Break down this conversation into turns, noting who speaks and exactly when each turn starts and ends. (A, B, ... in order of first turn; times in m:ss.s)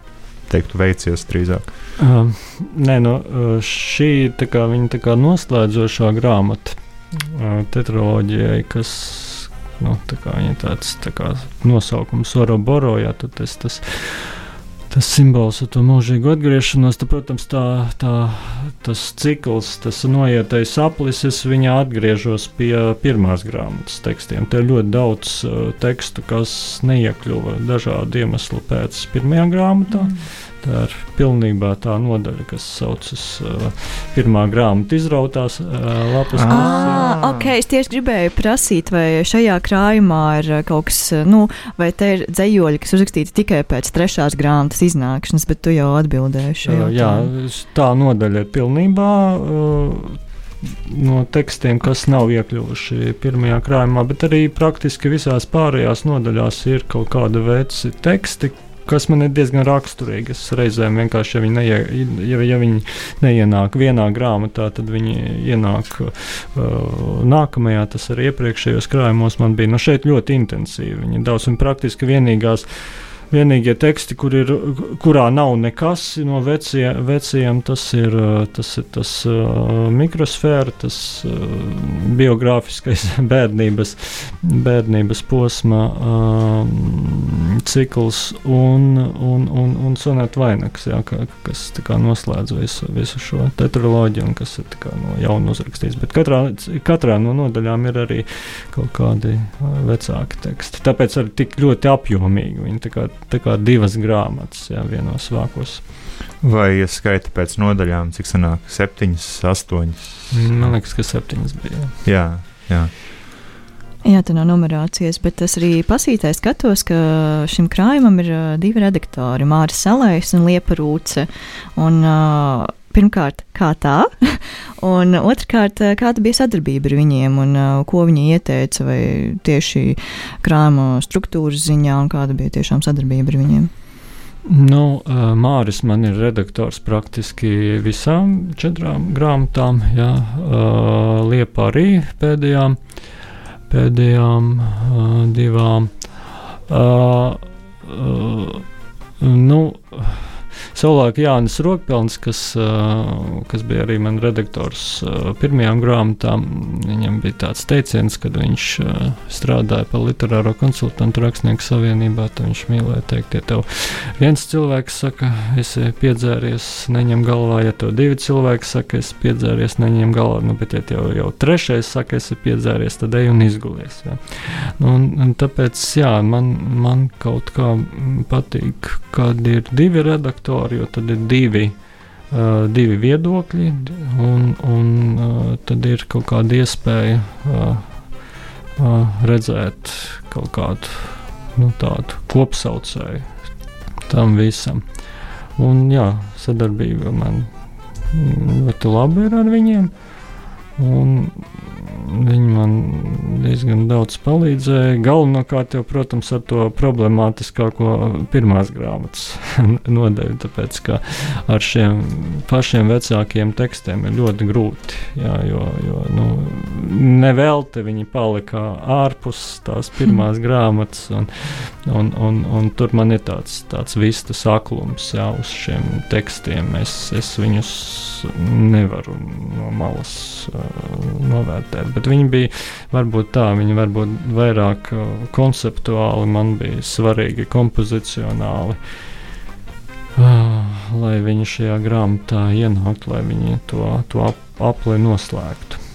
0:00.4-0:01.7 A
0:02.0-0:37.1 B
0:36.3-0:37.5 A
0:36.5-0:47.3 C
0:46.6-1:45.8 B
1:46.4-1:50.7 A
1:50.3-1:52.0 B
1:52.0-1:52.9 A
1:54.0-2:13.7 C
2:14.4-2:22.8 B
2:23.7-2:28.6 B
2:29.2-3:01.8 B
3:02.3-3:08.0 B
3:08.8-3:13.3 B
3:14.1-3:14.8 B
3:15.6-3:17.5 B
3:18.1-3:19.9 B
3:20.8-3:58.8 B
4:00.2-4:05.8 B